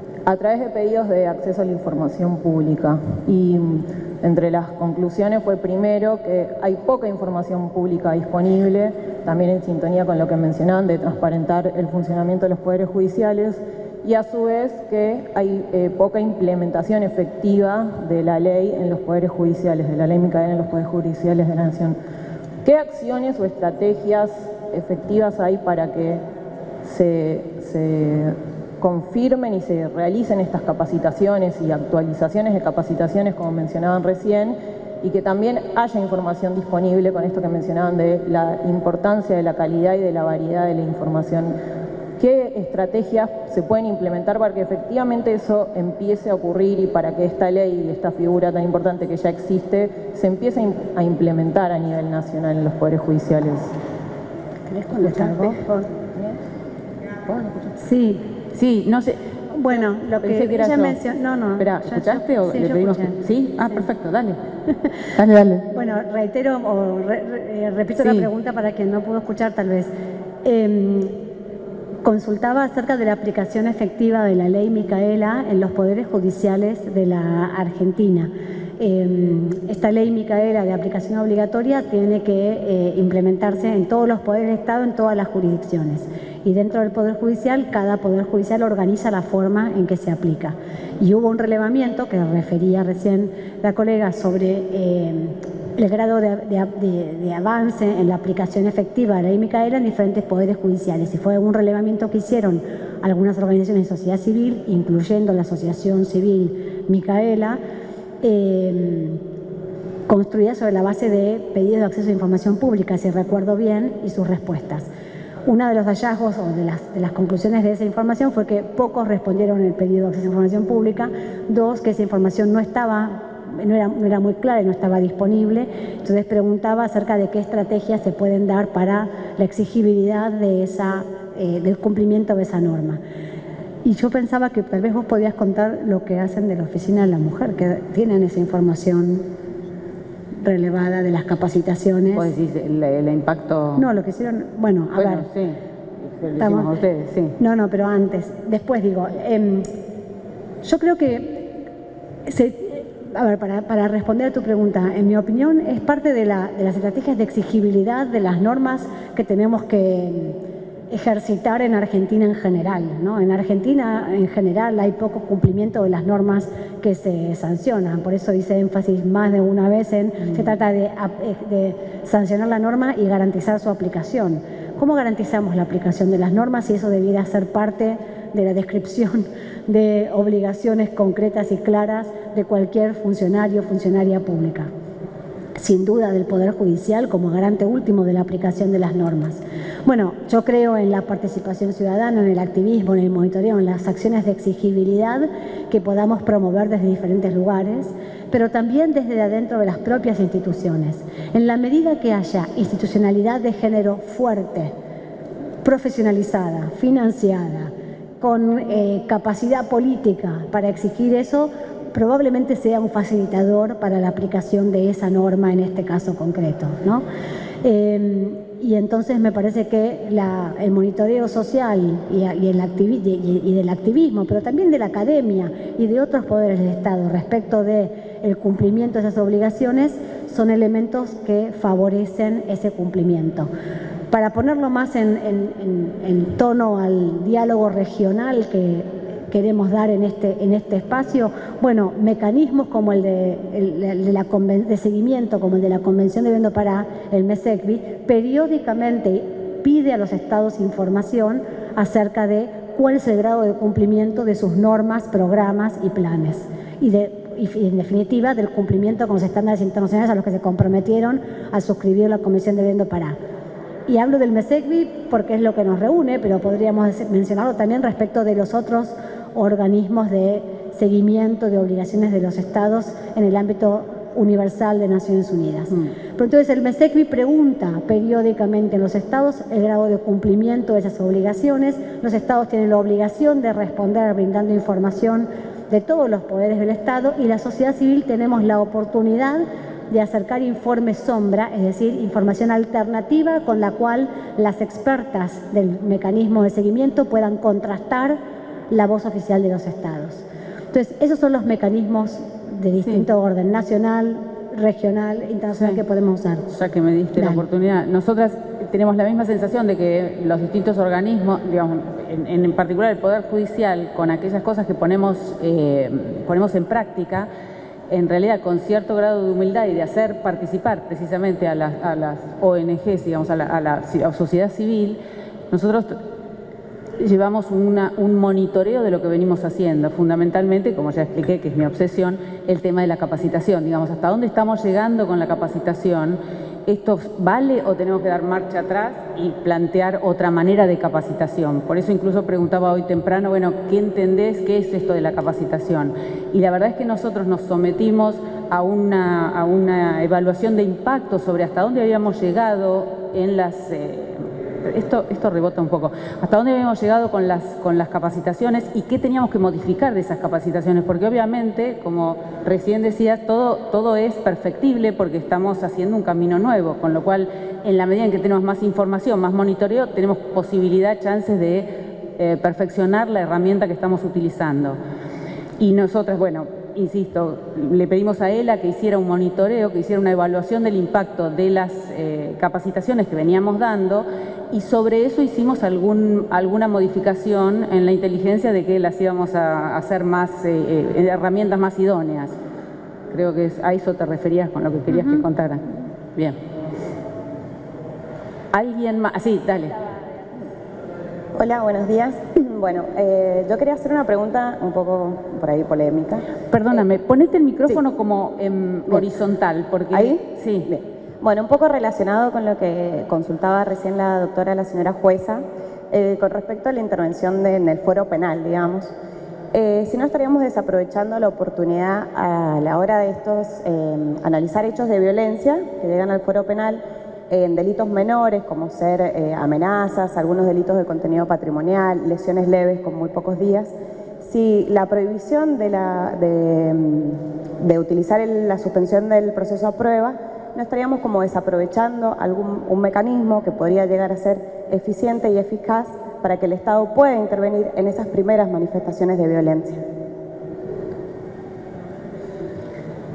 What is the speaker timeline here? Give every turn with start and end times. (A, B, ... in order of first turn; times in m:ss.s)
0:00.2-0:22.0 A
0:22.6-0:26.2 A
0:26.8-0:41.6 A
0:42.2-0:53.7 A
0:54.7-0:55.8 B
0:57.3-0:57.6 C
0:57.8-0:58.2 B
0:58.5-0:59.2 C
0:59.5-1:03.2 B
1:00.2-1:00.9 C
1:01.6-1:04.4 C
1:05.2-1:05.6 C
1:05.7-1:09.9 B
1:08.0-1:08.3 C
1:10.4-1:11.2 B
1:12.0-1:47.6 B
1:48.2-1:49.2 B
1:50.1-1:54.9 B
1:55.4-2:13.0 B
2:13.8-2:19.2 B
2:20.4-2:22.3 B
2:22.1-2:23.9 C
2:23.7-2:25.3 B
2:24.9-2:25.6 C
2:26.1-2:27.3 C
2:26.4-2:26.7 B
2:27.4-2:29.7 B
2:30.6-2:31.5 B
2:32.2-2:40.4 B
2:40.9-3:04.7 B
3:05.6-3:24.7 B
3:25.6-3:37.0 B
3:37.6-3:53.5 B
3:54.1-4:23.2 B
4:23.9-4:58.2 B
4:58.7-5:06.4 B
5:06.5-5:17.3 C
5:07.1-5:07.4 B
5:17.9-5:25.0 C
5:25.5-5:26.0 C
5:27.0-6:14.8 C
6:15.6-6:32.4 C
6:33.1-6:36.4 C
6:38.5-6:39.7 C
6:41.4-6:46.3 D
6:46.5-6:50.7 C
6:49.9-6:58.9 D
6:59.5-7:29.8 D